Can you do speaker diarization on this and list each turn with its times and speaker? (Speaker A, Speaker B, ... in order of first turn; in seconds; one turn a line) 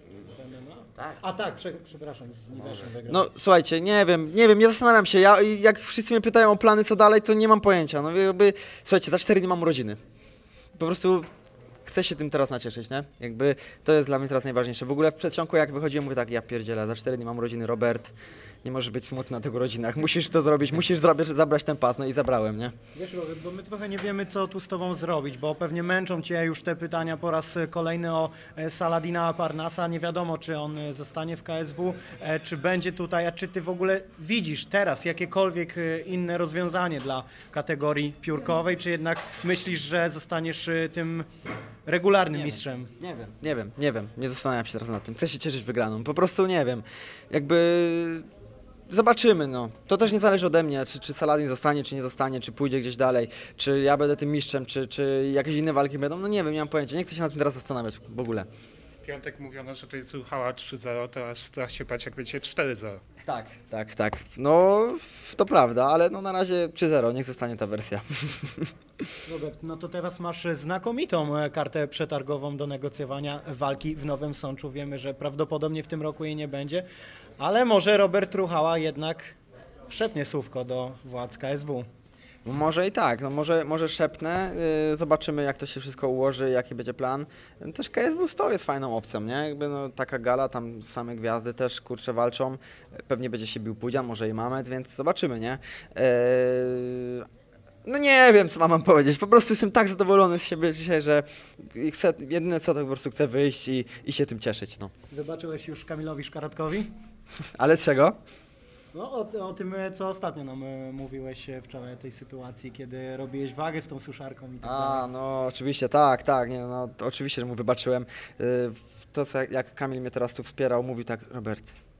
Speaker A: 0.3-3.3
Speaker B: 3.1-10.0
Speaker B: 10.8-11.3
Speaker B: 11.9-18.1
Speaker B: 18.6-22.7
Speaker A: 22.9-41.3
Speaker A: 41.9-42.9
Speaker B: 42.4-48.3
Speaker B: 48.9-58.5
Speaker C: 59.0-63.0
Speaker B: 63.3-68.7
Speaker A: 69.3-76.8
Speaker A: 77.4-79.3
Speaker A: 79.9-81.8
Speaker B: 82.5-97.3
Speaker B: 97.8-104.9
Speaker A: 105.1-106.9
Speaker B: 107.5-108.2
Speaker A: 108.9-115.1
Speaker B: 114.6-121.8